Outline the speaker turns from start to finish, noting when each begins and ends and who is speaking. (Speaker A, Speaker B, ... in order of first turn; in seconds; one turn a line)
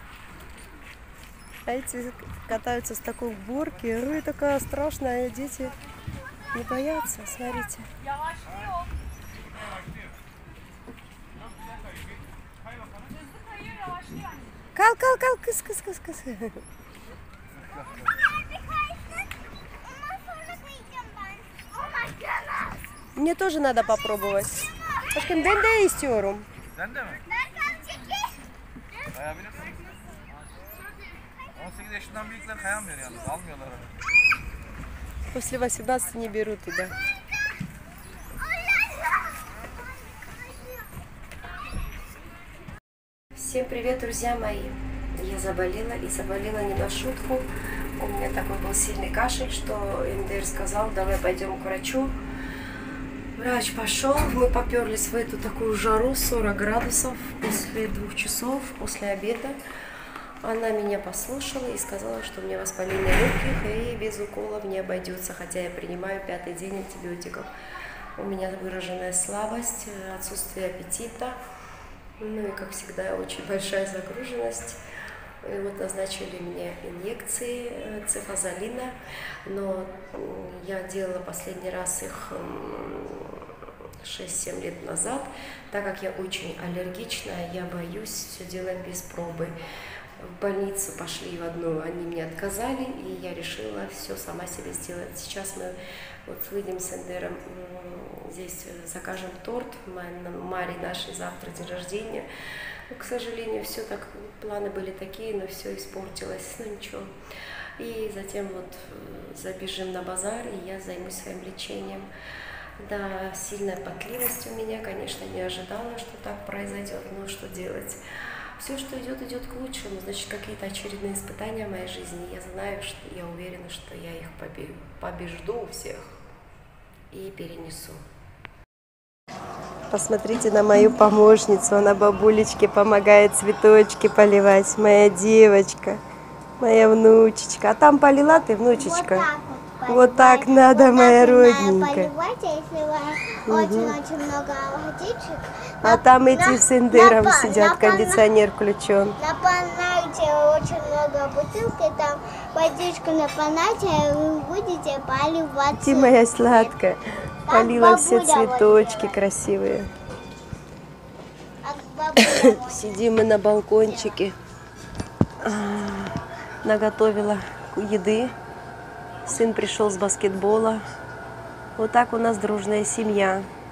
Speaker A: 1.7-5.7
Speaker A: 6.5-7.9
Speaker A: 14.8-16.6
Speaker B: 20.6-21.1
Speaker A: 23.1-24.6
Speaker A: 25.1-26.5
Speaker C: 26.8-27.2
Speaker C: 29.2-29.8
Speaker C: 31.6-33.9
Speaker A: 35.3-36.9
Speaker A: 43.4-47.5
Speaker A: 48.0-52.1
Speaker A: 53.4-59.6
Speaker A: 60.4-67.5
Speaker A: 68.2-71.4
Speaker A: 72.2-74.8
Speaker A: 75.4-78.9
Speaker A: 79.5-89.5
Speaker A: 90.2-95.7
Speaker A: 96.3-102.3
Speaker A: 102.9-107.1
Speaker A: 107.8-112.1
Speaker A: 112.8-118.0
Speaker A: 118.6-126.1
Speaker A: 127.1-128.0
Speaker A: 129.9-136.0
Speaker A: 136.6-139.3
Speaker B: 138.7-148.3
Speaker A: 139.9-142.1
Speaker A: 143.5-144.0
Speaker A: 145.8-149.2
Speaker B: 149.2-156.7
Speaker A: 155.8-159.9
Speaker B: 157.5-159.2
Speaker B: 161.6-163.0
Speaker A: 162.2-164.3
Speaker B: 163.8-164.1
Speaker A: 165.4-168.3
Speaker A: 169.3-170.8
Speaker A: 171.8-173.5